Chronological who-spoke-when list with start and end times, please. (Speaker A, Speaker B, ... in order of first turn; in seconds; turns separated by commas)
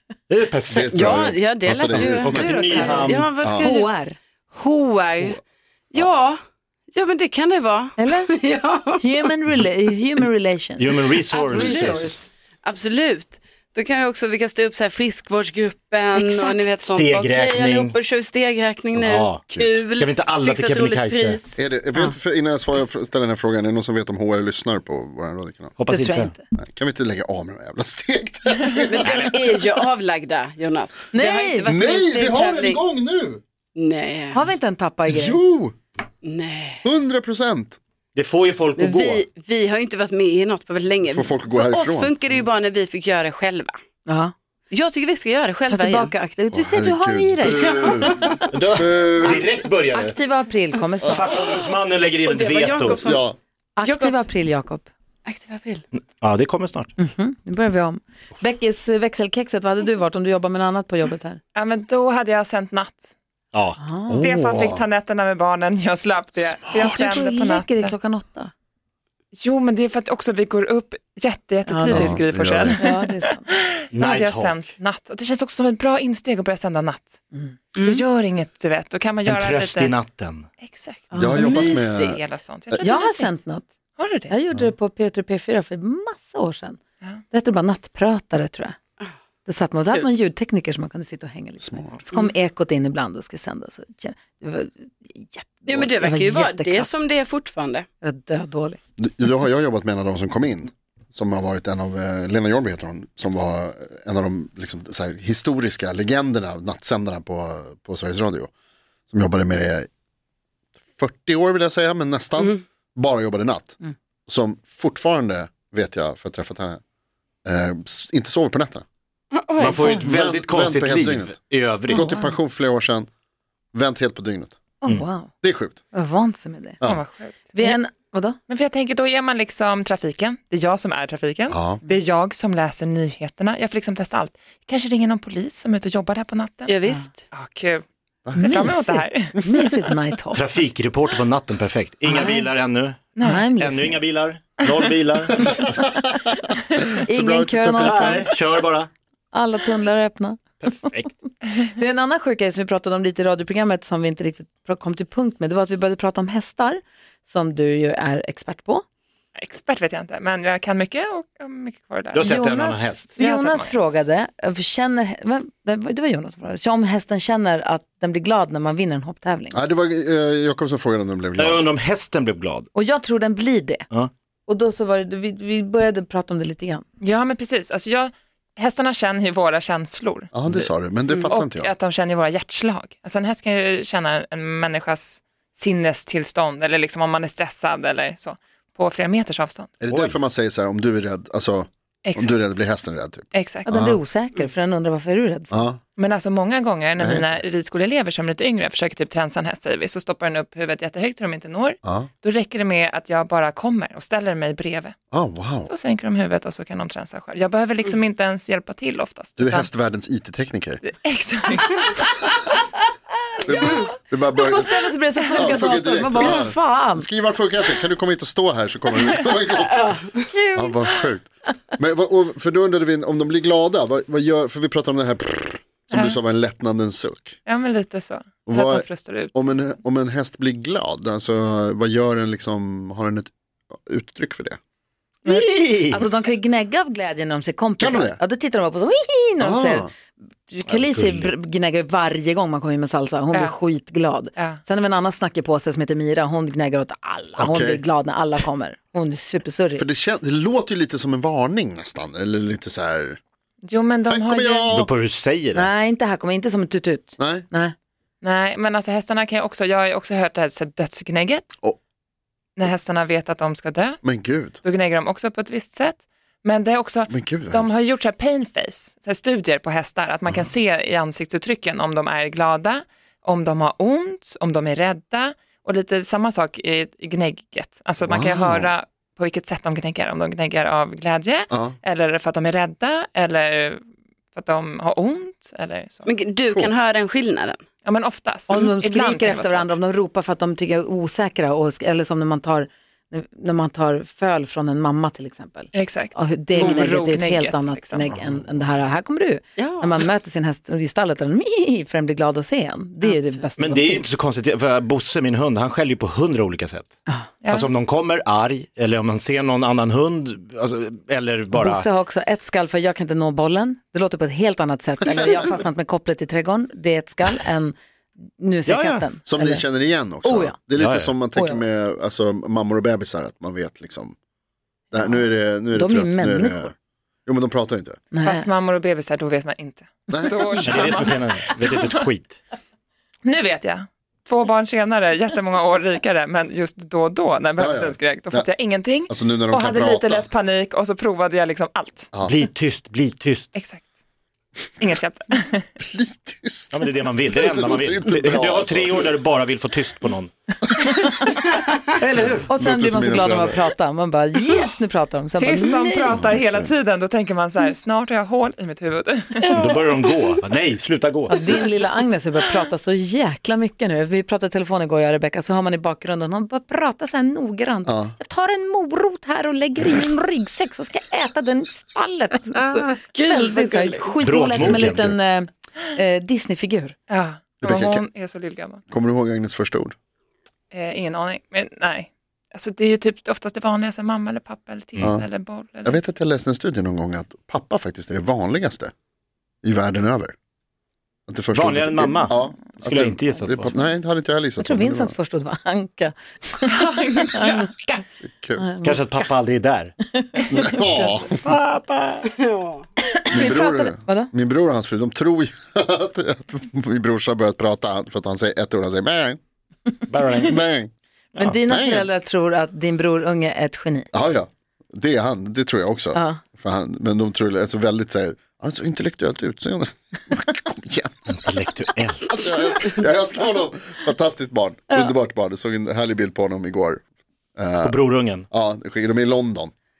Speaker A: 0.3-1.3, Speaker B: 0.7-2.6, Speaker C: 0.9-3.9, Speaker D: 1.9-4.2, Speaker A: 2.2-3.3, Speaker B: 3.4-3.7, Speaker C: 4.5-5.4, Speaker C: 5.9-6.4, Speaker C: 6.9-9.2, Speaker D: 8.0-8.3, Speaker D: 9.0-12.3, Speaker A: 10.8-12.2, Speaker C: 11.2-21.6, Speaker D: 16.1-16.6, Speaker A: 16.9-18.0, Speaker B: 19.0-19.8, Speaker A: 19.1-21.4, Speaker B: 21.6-25.7, Speaker A: 25.8-26.3, Speaker D: 25.9-26.4, Speaker B: 26.5-29.3, Speaker C: 28.9-32.8, Speaker D: 31.1-31.6, Speaker B: 31.6-33.4, Speaker C: 33.8-34.4, Speaker D: 34.3-35.4, Speaker B: 35.1-35.8, Speaker C: 36.2-36.8, Speaker B: 36.8-37.8, Speaker A: 38.1-39.2, Speaker C: 38.7-43.8, Speaker B: 41.0-42.2, Speaker D: 44.0-44.3, Speaker C: 44.7-46.1, Speaker D: 45.7-48.6, Speaker B: 46.5-49.5, Speaker C: 47.5-48.3, Speaker A: 48.5-50.1, Speaker D: 49.9-51.3, Speaker A: 51.0-53.0, Speaker C: 51.3-51.6, Speaker C: 52.2-53.2, Speaker B: 53.0-53.4, Speaker D: 53.8-54.9, Speaker C: 53.8-54.2, Speaker C: 55.2-55.8, Speaker A: 55.9-56.9, Speaker D: 57.0-61.4, Speaker E: 61.5-63.1, Speaker A: 63.5-63.8, Speaker D: 63.8-64.1, Speaker E: 64.1-67.9, Speaker B: 64.1-64.8, Speaker D: 66.7-68.5, Speaker E: 69.4-73.1, Speaker D: 71.7-72.2, Speaker B: 71.9-72.8, Speaker D: 72.8-73.5, Speaker A: 73.9-74.6, Speaker E: 73.9-77.2, Speaker E: 77.8-80.0, Speaker C: 77.8-78.0, Speaker A: 79.2-80.5, Speaker E: 80.6-83.3, Speaker D: 81.1-81.6, Speaker B: 81.2-82.2, Speaker C: 81.3-82.2, Speaker D: 82.8-83.7, Speaker E: 84.0-84.3, Speaker D: 84.3-86.8, Speaker D: 87.3-88.8, Speaker D: 89.4-97.0, Speaker B: 91.6-91.9, Speaker C: 95.7-97.8, Speaker D: 98.0-98.8, Speaker B: 99.0-108.5, Speaker B: 109.1-109.9, Speaker B: 110.9-116.8, Speaker B: 117.4-118.8, Speaker C: 119.3-120.0, Speaker A: 119.6-122.1, Speaker D: 119.6-120.0, Speaker B: 120.0-121.4, Speaker B: 121.9-123.1, Speaker D: 121.9-122.3, Speaker B: 123.7-124.6, Speaker D: 124.8-125.3, Speaker B: 125.4-125.8, Speaker D: 125.9-126.8, Speaker E: 126.8-127.8, Speaker D: 127.5-128.4, Speaker E: 128.5-136.8, Speaker B: 131.5-131.8, Speaker C: 136.7-137.2, Speaker E: 137.3-139.3, Speaker B: 138.2-138.5, Speaker D: 138.4-140.4, Speaker A: 140.3-145.6, Speaker D: 142.1-142.4, Speaker E: 143.2-143.4, Speaker D: 143.2-144.0, Speaker B: 146.1-148.2, Speaker D: 147.0-148.3, Speaker A: 147.8-148.9, Speaker D: 149.3-150.5, Speaker A: 150.6-151.1, Speaker D: 151.6-158.8, Speaker E: 159.4-162.4, Speaker A: 162.1-163.1, Speaker D: 162.2-169.6, Speaker E: 163.2-163.8, Speaker B: 169.5-171.6, Speaker A: 171.4-172.7, Speaker D: 172.7-173.8, Speaker D: 174.5-176.8, Speaker E: 177.0-189.7, Speaker B: 180.3-181.7, Speaker B: 189.8-194.0, Speaker A: 189.9-190.2, Speaker E: 192.0-192.6, Speaker E: 193.3-193.7, Speaker D: 193.7-195.5, Speaker B: 195.5-195.8, Speaker E: 196.0-204.9, Speaker B: 197.0-197.4, Speaker B: 201.8-202.1, Speaker B: 205.1-205.7, Speaker E: 205.7-209.7, Speaker B: 209.4-210.8, Speaker E: 210.8-212.2, Speaker B: 213.4-220.0, Speaker D: 214.3-217.1, Speaker C: 219.7-220.2, Speaker D: 220.3-220.7, Speaker B: 220.5-227.4, Speaker E: 225.9-226.2, Speaker E: 227.4-229.5, Speaker B: 228.4-234.6, Speaker E: 235.2-235.5, Speaker A: 235.2-236.1, Speaker D: 235.9-239.9, Speaker B: 237.8-238.2, Speaker B: 239.4-239.9, Speaker D: 240.4-249.8, Speaker A: 240.7-241.3, Speaker B: 247.4-247.8, Speaker B: 249.8-253.2, Speaker E: 253.6-254.7, Speaker B: 254.1-254.9, Speaker A: 254.7-255.7, Speaker D: 255.5-257.7, Speaker B: 257.2-257.5, Speaker E: 258.2-261.5, Speaker E: 262.6-283.8, Speaker B: 264.0-264.6, Speaker B: 267.1-267.7, Speaker B: 278.0-278.7, Speaker B: 281.5-281.8, Speaker E: 284.3-286.1, Speaker C: 286.1-287.6, Speaker E: 287.8-289.8, Speaker D: 288.5-304.0, Speaker E: 295.7-298.0, Speaker C: 299.6-300.0, Speaker A: 303.6-306.9, Speaker E: 307.4-307.7, Speaker A: 307.5-311.9, Speaker D: 311.5-317.8, Speaker D: 318.4-319.7, Speaker A: 318.7-319.0, Speaker B: 319.2-324.1, Speaker D: 320.2-320.6, Speaker A: 320.7-321.1, Speaker D: 321.3-321.6, Speaker B: 324.9-326.7, Speaker D: 325.7-326.7, Speaker B: 327.2-328.0, Speaker D: 328.1-328.4, Speaker E: 328.2-331.9, Speaker B: 330.1-331.1, Speaker A: 330.6-332.4, Speaker E: 333.2-342.1, Speaker B: 337.6-338.5, Speaker B: 339.1-340.3, Speaker A: 342.2-343.5, Speaker E: 343.5-343.9, Speaker E: 344.8-345.6, Speaker B: 345.8-349.1, Speaker A: 346.7-350.3, Speaker A: 352.0-352.4, Speaker B: 352.2-353.6, Speaker D: 352.5-356.2, Speaker E: 355.4-359.5, Speaker B: 356.1-356.7, Speaker C: 359.4-360.4, Speaker A: 359.5-361.4, Speaker D: 361.3-376.9, Speaker B: 367.9-368.1, Speaker C: 372.5-374.2, Speaker A: 374.2-375.1, Speaker B: 374.5-375.1, Speaker E: 377.1-378.8, Speaker B: 377.6-378.0, Speaker B: 378.9-379.9, Speaker E: 380.7-386.0, Speaker B: 385.0-385.2, Speaker B: 385.8-388.9, Speaker B: 389.6-390.3, Speaker B: 391.3-395.1, Speaker A: 391.5-393.7, Speaker D: 394.6-396.8, Speaker E: 396.7-398.0, Speaker B: 398.2-398.7, Speaker D: 398.6-399.3, Speaker A: 398.8-399.9, Speaker D: 400.1-400.7, Speaker B: 400.5-401.4, Speaker A: 401.3-402.3, Speaker C: 402.3-402.8, Speaker D: 403.2-404.3, Speaker B: 403.3-409.4, Speaker A: 410.1-410.6, Speaker B: 410.4-410.9, Speaker D: 411.4-414.1, Speaker B: 411.5-412.1, Speaker B: 414.1-421.4, Speaker D: 416.1-416.4, Speaker A: 421.3-422.4, Speaker B: 422.3-427.0, Speaker B: 427.6-429.7, Speaker A: 427.8-428.4